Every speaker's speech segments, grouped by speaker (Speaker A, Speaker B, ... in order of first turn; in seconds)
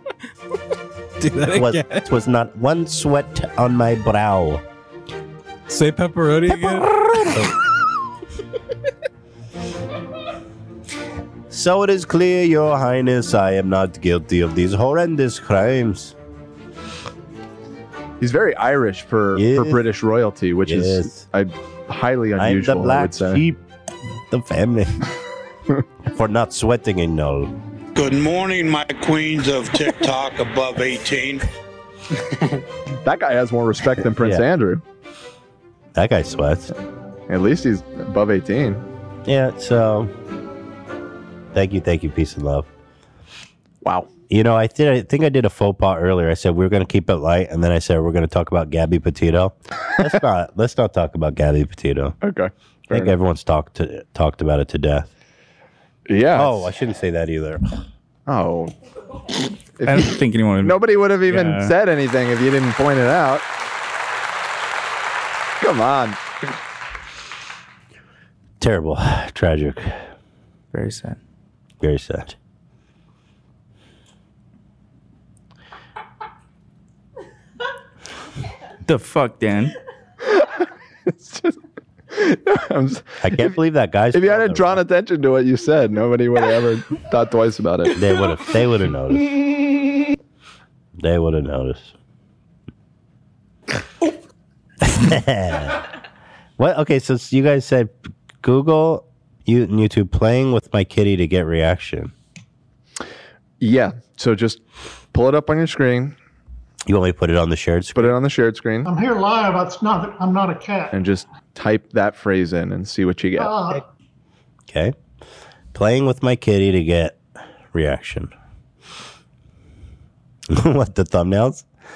Speaker A: 1.2-2.1, 5.7-7.0
Speaker B: 1.4-4.6, 6.5-7.5, 11.5-16.1, 19.4-19.8, 20.7-21.2, 22.4-23.6, 24.3-25.0, 26.1-27.5, 35.9-36.7, 39.3-40.1, 41.5-42.7, 44.3-52.2, 52.9-55.1, 56.4-57.6, 68.6-70.1, 71.8-72.4, 83.2-84.8, 87.9-89.4, 91.0-91.9, 94.8-95.8, 96.6-102.1, 106.9-108.2, 114.7-115.0, 115.7-117.2, 117.7-118.3, 120.5-121.7
Speaker C: 18.2-23.4, 33.0-34.8, 37.3-38.9, 43.8-44.1, 52.2-53.1, 56.1-56.7, 58.3-58.7, 59.8-63.5, 65.6-66.2, 80.3-83.6, 84.1-88.0, 103.6-104.6, 105.1-106.2, 108.0-108.9, 110.9-113.6
Speaker D: 27.9-31.5
Speaker E: 59.8-61.7, 70.7-71.2, 78.8-79.8
Speaker F: 108.8-110.9, 113.4-113.8